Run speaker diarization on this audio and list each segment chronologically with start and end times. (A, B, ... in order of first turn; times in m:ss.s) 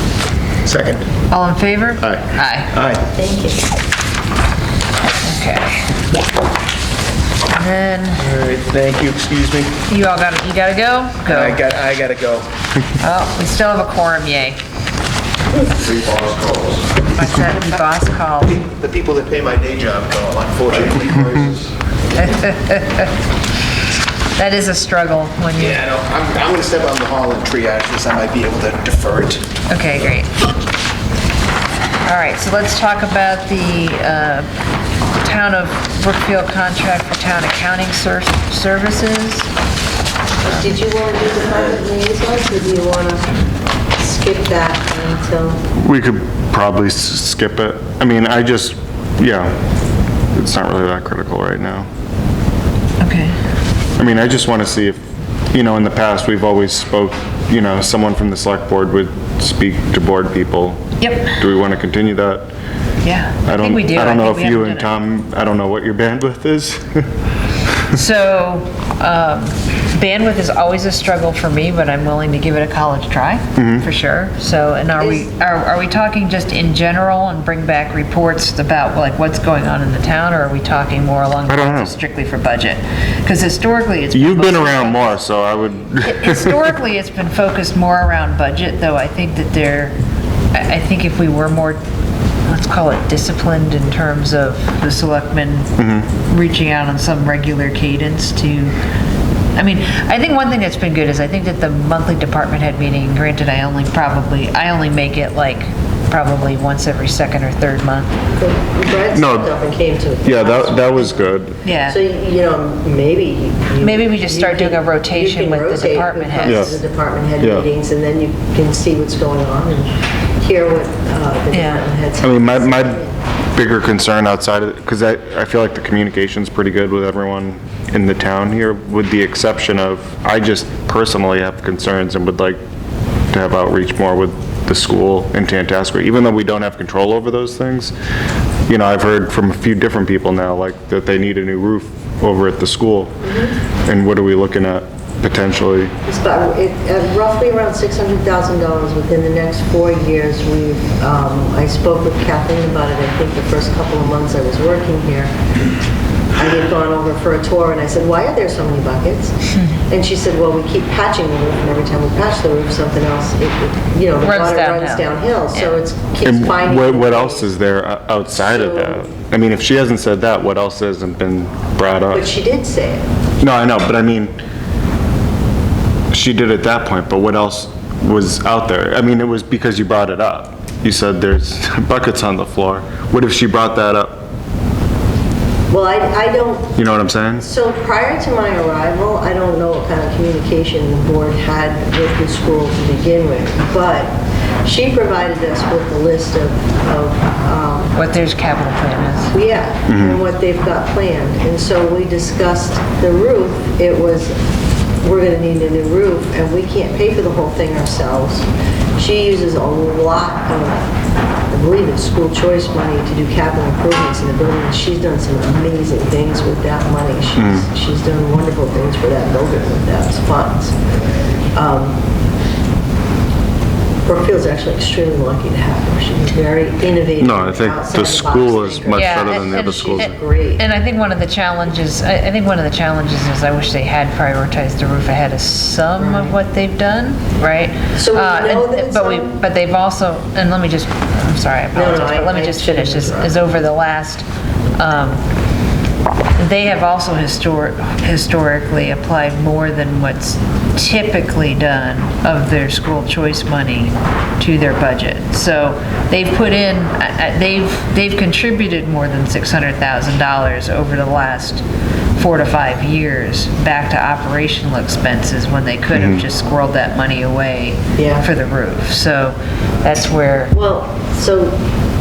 0:00.6-0:01.0 A
0:01.3-0:02.7 B
0:02.8-0:03.0 A
0:03.1-0:03.6 C
0:05.2-0:05.9 B
0:07.5-0:08.3 B
0:08.2-0:09.8 A
0:09.9-0:11.6 B
0:11.3-0:12.5 A
0:13.0-0:14.6 B
0:15.8-0:17.0 A
0:17.1-0:18.6 B
0:18.6-0:21.7 A
0:22.2-0:23.1 B
0:24.4-0:25.8 B
0:25.6-0:29.5 A
0:29.7-0:30.4 B
0:32.0-0:34.5 B
0:35.2-0:39.5 B
0:40.4-0:43.3 C
0:44.0-0:45.6 C
0:45.8-0:49.6 D
0:50.3-0:51.9 D
0:53.0-0:53.4 B
0:54.0-1:02.5 D
1:01.0-1:01.4 B
1:03.0-1:04.9 B
1:03.4-1:07.1 D
1:07.9-1:25.2 B
1:13.6-1:13.9 D
1:15.0-1:15.3 C
1:21.5-1:21.9 D
1:24.1-1:26.6 D
1:26.0-1:30.0 B
1:30.5-1:31.8 B
1:32.5-1:35.7 B
1:35.8-1:36.1 D
1:36.3-1:38.7 B
1:39.6-1:48.2 B
1:48.4-1:51.3 C
1:49.1-1:49.5 D
1:50.2-1:51.6 D
1:51.6-1:52.0 B
1:51.8-2:03.2 C
1:53.8-1:56.7 B
1:56.4-1:56.8 D
1:57.4-1:57.7 D
2:01.5-2:01.9 B
2:02.2-2:03.0 D
2:03.5-2:12.6 D
2:13.3-2:17.9 D
2:18.7-2:23.2 D
2:23.2-2:23.5 C
2:23.8-2:25.9 D
2:26.1-2:35.4 C
2:36.4-2:47.5 C
2:44.2-2:45.7 B
2:46.2-2:52.3 D
2:48.4-2:49.0 C
2:52.1-2:53.0 C
2:53.4-2:54.4 D
2:56.1-3:04.3 D
3:05.7-3:06.8 C
3:06.8-3:07.5 D
3:07.4-3:17.9 C
3:18.0-3:19.4 B
3:19.3-3:24.4 C
3:19.9-3:20.2 D
3:25.0-3:30.8 C
3:31.5-3:40.8 C
3:37.4-3:37.6 D
3:41.6-3:42.0 C
3:44.0-3:50.6 C
3:47.2-3:50.1 D
3:48.9-4:04.3 B
3:56.0-3:56.4 C
3:57.9-3:59.4 C
4:01.7-4:03.4 C
4:04.8-4:05.2 B
4:06.4-4:21.6 B
4:22.2-4:30.5 B
4:25.9-4:26.2 D
4:28.0-4:28.3 C
4:30.5-4:31.6 C